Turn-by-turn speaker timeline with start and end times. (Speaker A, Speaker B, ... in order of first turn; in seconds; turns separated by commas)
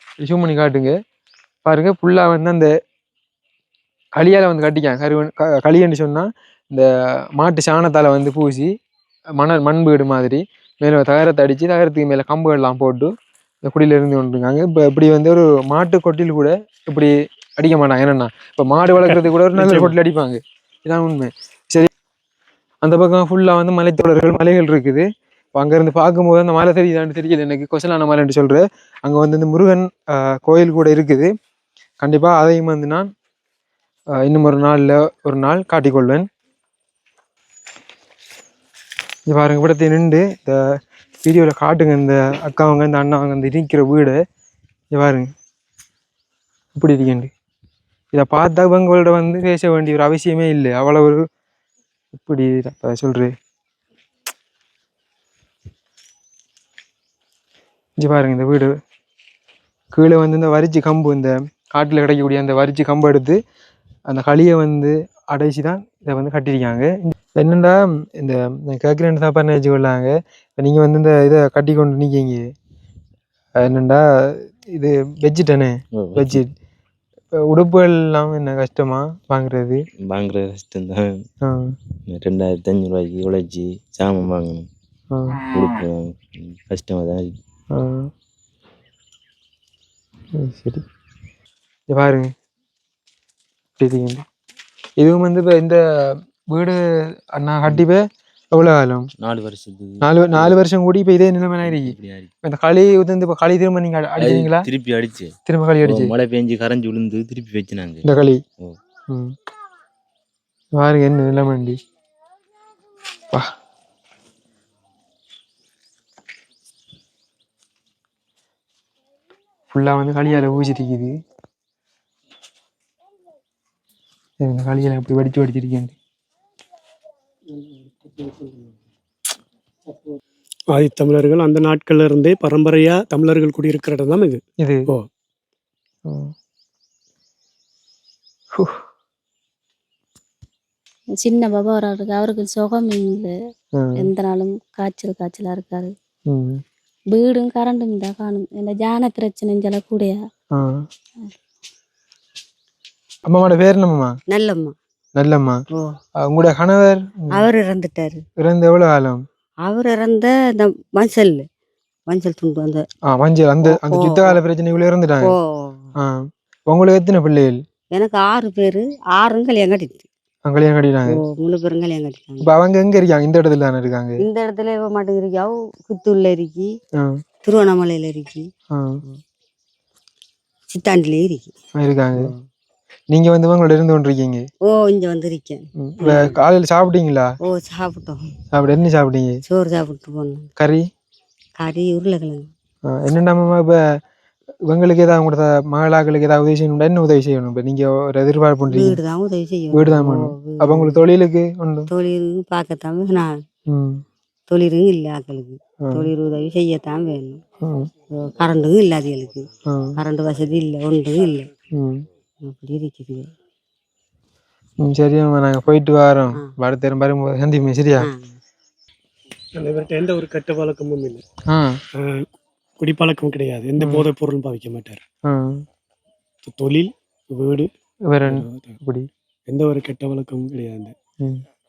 Speaker A: 0.2-0.9, Speaker A: 1.6-2.7, Speaker A: 4.2-8.7, Speaker A: 9.4-13.1, Speaker A: 13.7-21.9, Speaker B: 19.1-19.9, Speaker A: 22.8-31.3, Speaker A: 32.0-33.1, Speaker A: 34.2-36.3, Speaker A: 39.3-40.6, Speaker A: 41.2-44.2, Speaker A: 44.9-45.3, Speaker A: 46.8-47.3, Speaker A: 48.1-51.2, Speaker A: 52.1-53.3, Speaker A: 58.0-58.8, Speaker A: 59.9-63.4, Speaker A: 64.1-72.5, Speaker A: 73.6-76.5, Speaker C: 75.9-76.4, Speaker A: 77.4-79.8, Speaker C: 80.0-81.2, Speaker A: 81.4-81.7, Speaker C: 82.1-84.7, Speaker A: 85.1-85.4, Speaker C: 85.5-87.4, Speaker A: 87.7-88.1, Speaker A: 90.3-90.8, Speaker A: 91.9-92.3, Speaker A: 93.8-94.2, Speaker A: 95.0-96.8, Speaker A: 97.3-99.1, Speaker C: 99.2-100.7, Speaker A: 100.0-104.7, Speaker C: 101.6-102.3, Speaker C: 104.2-108.8, Speaker A: 105.5-106.1, Speaker A: 108.0-108.4, Speaker A: 110.8-111.8, Speaker A: 119.7-121.2, Speaker A: 124.4-126.0, Speaker B: 127.9-128.7, Speaker B: 130.7-135.1, Speaker A: 136.1-136.3, Speaker A: 138.6-138.8, Speaker D: 141.2-143.3, Speaker A: 143.8-144.1, Speaker D: 144.0-145.9, Speaker A: 146.3-146.6, Speaker D: 147.1-150.2, Speaker A: 153.3-154.1, Speaker E: 154.3-154.7, Speaker A: 155.2-155.6, Speaker A: 156.2-157.5, Speaker E: 157.3-158.2, Speaker A: 158.4-159.2, Speaker E: 159.7-161.4, Speaker E: 162.1-162.8, Speaker A: 163.1-165.3, Speaker E: 163.6-164.4, Speaker E: 165.2-165.9, Speaker A: 166.0-167.6, Speaker E: 167.9-170.1, Speaker A: 170.4-171.2, Speaker E: 171.1-172.5, Speaker A: 172.4-174.2, Speaker E: 174.2-176.8, Speaker E: 177.4-178.5, Speaker A: 178.7-179.0, Speaker E: 180.7-181.5, Speaker A: 181.8-182.3, Speaker A: 183.1-184.4, Speaker E: 184.7-186.3, Speaker A: 185.8-187.3, Speaker E: 187.4-188.3, Speaker A: 188.5-189.4, Speaker E: 189.5-190.5, Speaker A: 190.6-190.8, Speaker E: 191.6-192.5, Speaker A: 192.9-193.8, Speaker A: 194.7-199.0, Speaker E: 198.7-201.0, Speaker A: 199.7-201.9, Speaker E: 201.9-203.3, Speaker A: 203.7-204.0, Speaker E: 204.5-207.4, Speaker A: 205.8-206.1, Speaker A: 207.6-207.9, Speaker E: 208.2-211.5, Speaker A: 209.7-210.0, Speaker A: 211.7-212.1, Speaker E: 212.4-213.3, Speaker A: 214.8-218.1, Speaker E: 218.0-218.4, Speaker B: 219.6-221.2, Speaker A: 221.5-221.8, Speaker B: 221.9-222.3, Speaker B: 222.8-225.0, Speaker A: 223.8-224.1, Speaker A: 225.3-225.6, Speaker B: 226.4-227.7, Speaker A: 228.1-229.1, Speaker B: 228.3-228.7, Speaker B: 229.5-230.9